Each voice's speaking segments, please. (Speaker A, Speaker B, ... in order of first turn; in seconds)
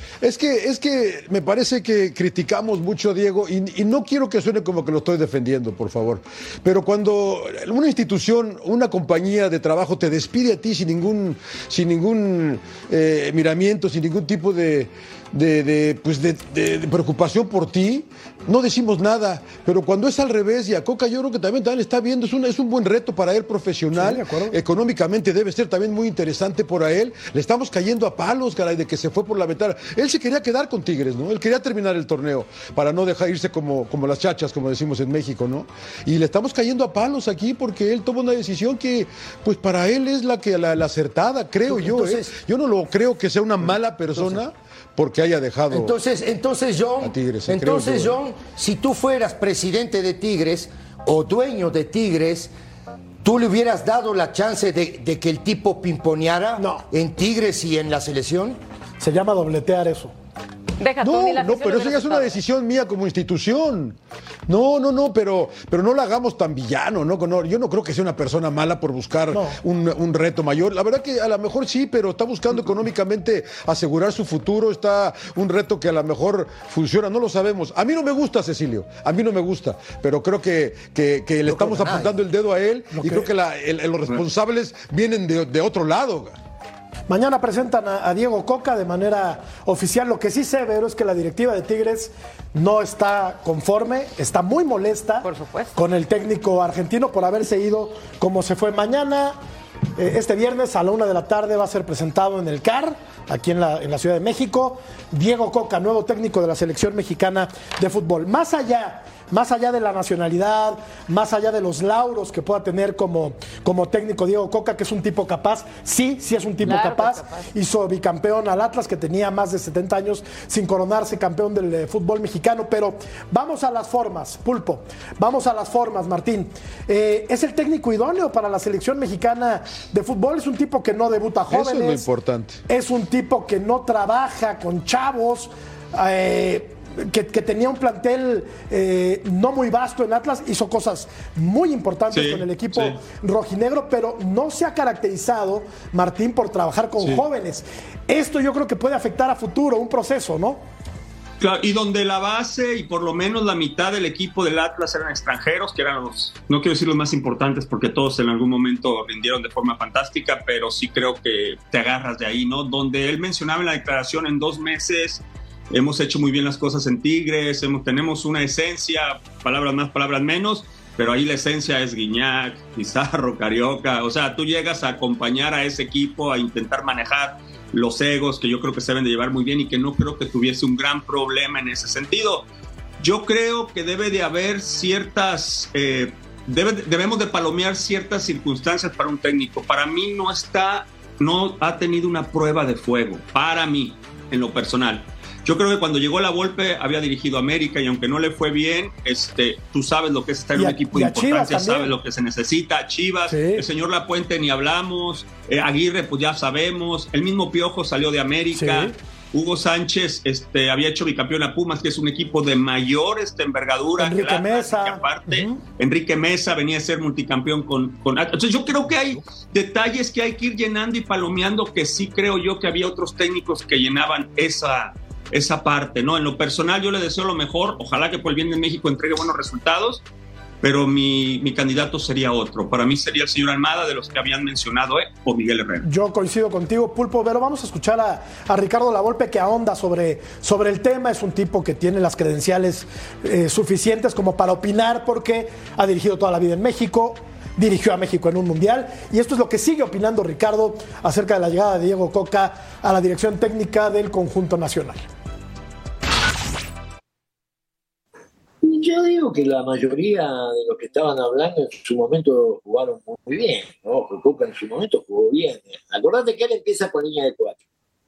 Speaker A: 0.2-45.9, 47.0-48.2, 61.0-86.4, 131.5-132.6
Speaker B: 23.9-24.6, 56.6-56.9, 59.0-60.1, 69.3-69.6, 83.0-83.3, 87.1-99.4, 100.0-132.1, 132.7-150.6, 200.6-201.9, 203.3-203.6, 208.5-208.9, 214.0-215.6, 235.8-255.1
Speaker C: 41.7-42.3, 45.7-52.5, 53.2-58.6, 81.5-82.2
Speaker D: 60.8-62.4, 95.2-95.7, 116.6-117.5
Speaker E: 142.1-143.0, 151.4-182.5, 183.0-230.1, 230.6-235.9
Speaker F: 258.6-267.6